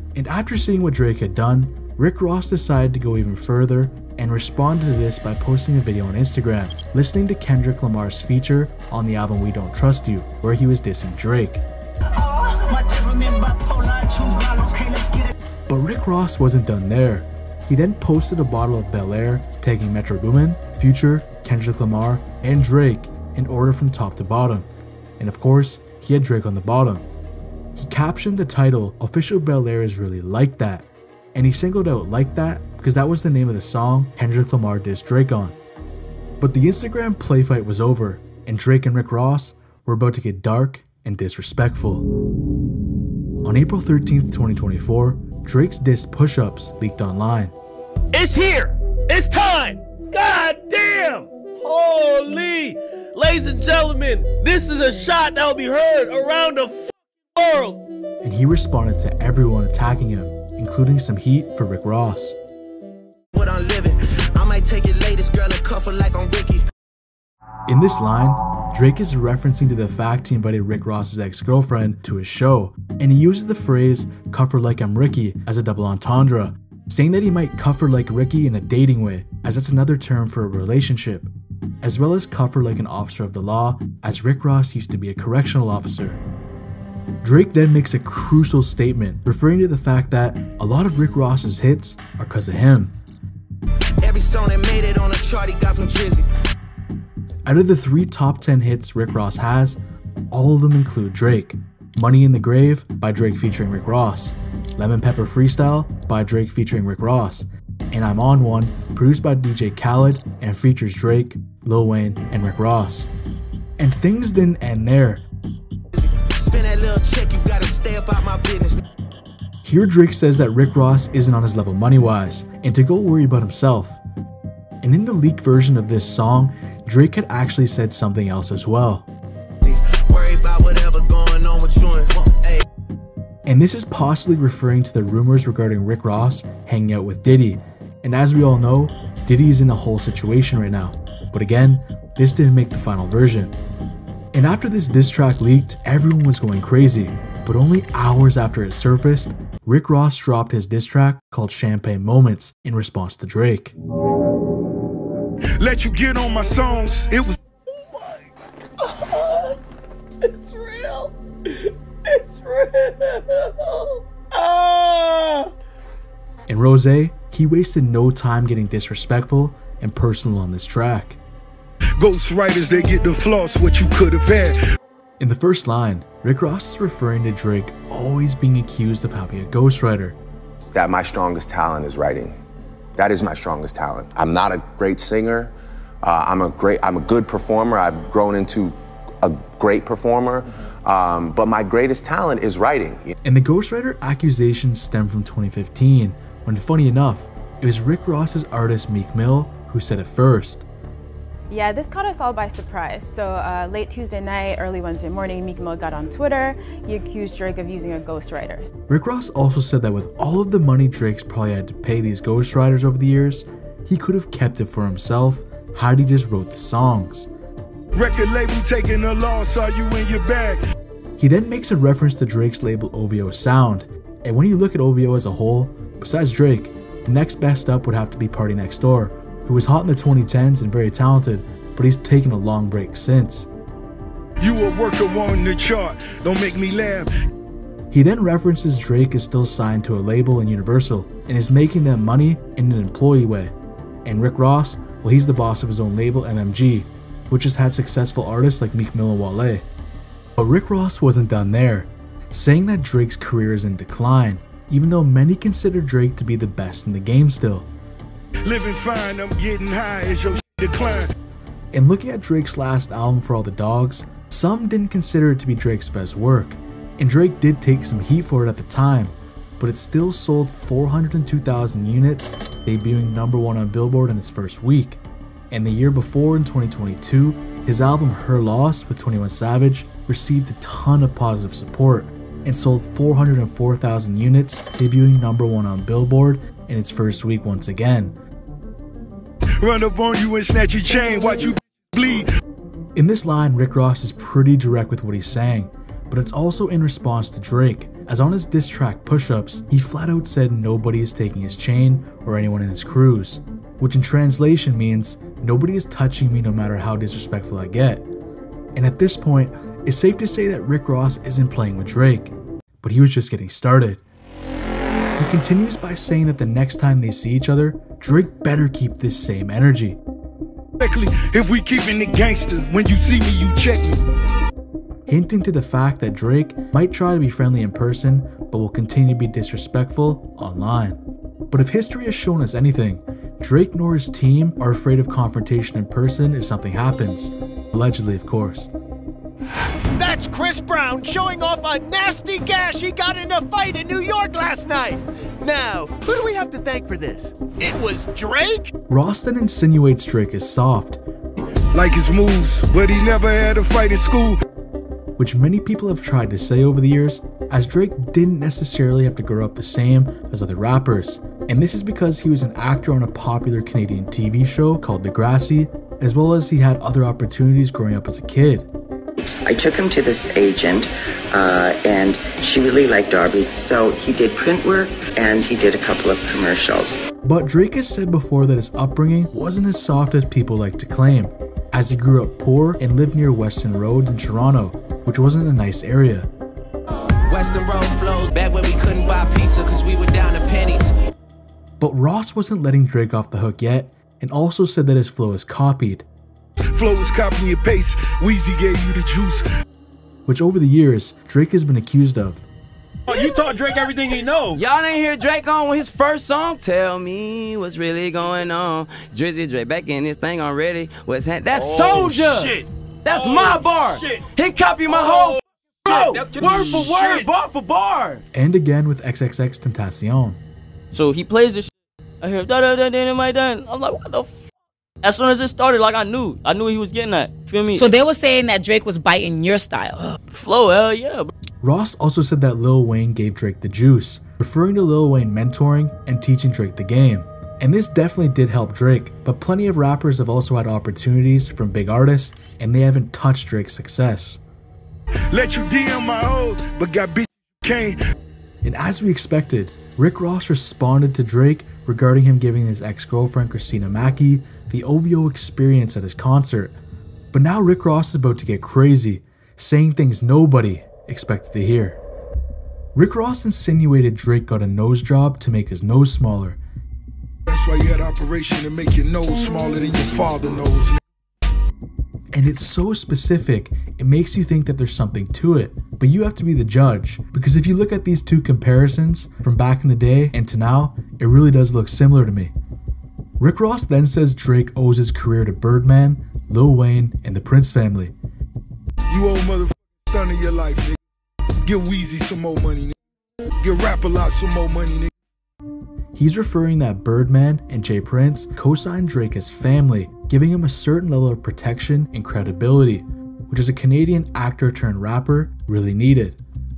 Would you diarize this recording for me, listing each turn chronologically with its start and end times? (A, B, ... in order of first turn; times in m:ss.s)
0:00.1-0:11.6 A
0:12.1-0:15.3 B
0:15.7-0:24.7 A
0:25.2-0:27.0 A
0:27.7-0:35.6 A
0:36.4-0:42.1 A
0:43.4-0:47.5 A
0:48.1-0:57.8 C
0:58.2-1:02.4 A
1:03.3-1:06.6 D
1:07.7-1:21.3 A
1:21.8-1:26.2 A
1:27.2-1:33.0 A
1:34.0-1:36.3 D
1:37.4-1:53.1 A
1:53.8-1:55.2 A
1:55.9-1:58.8 D
1:59.6-2:04.0 A
2:04.8-2:09.1 A
2:09.6-2:12.6 D
2:13.4-2:23.5 A
2:24.3-2:33.8 A
2:35.6-2:37.4 E
2:37.7-2:38.2 D
2:38.8-2:39.5 D
2:40.2-2:45.5 D
2:46.5-2:51.2 A
2:52.0-2:54.6 E
2:55.2-3:00.2 A
3:00.7-3:02.4 F
3:03.0-3:13.1 F
3:13.2-3:20.6 A
3:21.5-3:28.7 G
3:28.9-3:37.3 A
3:37.9-3:40.6 E
3:41.2-3:53.5 A
3:54.4-3:57.1 E
3:57.9-4:09.6 A
4:10.4-4:17.7 A
4:18.4-4:21.1 E
4:21.7-4:48.2 A
4:49.6-4:52.3 E
4:52.9-5:08.1 A
5:08.7-5:14.0 A
5:15.2-5:20.0 A
5:20.8-5:24.0 E
5:25.1-5:31.0 A
5:31.5-5:38.7 A
5:39.9-5:48.7 H
5:48.9-5:51.0 A
5:51.7-5:54.4 E
5:55.2-6:08.7 A
6:09.4-6:17.0 I
6:17.2-6:26.3 A
6:27.3-6:30.9 D
6:31.8-6:36.0 A
6:36.7-6:39.4 E
6:40.2-6:42.4 A
6:43.1-6:44.6 B
6:44.5-6:57.2 J
6:51.7-6:54.2 B
6:54.9-6:57.2 B
6:58.3-7:00.4 A
7:00.9-7:04.4 K
7:05.0-7:07.9 K
7:07.7-7:10.1 L
7:10.3-7:11.3 K
7:11.6-7:24.4 A
7:25.3-7:28.0 E
7:28.6-7:36.8 A
7:37.3-7:42.0 A
7:42.9-7:46.6 A
7:47.5-7:51.0 E
7:52.3-8:02.5 A
8:03.4-8:08.1 A
8:09.1-8:11.0 E
8:11.6-8:12.9 E
8:13.6-8:15.1 E
8:16.1-8:26.4 A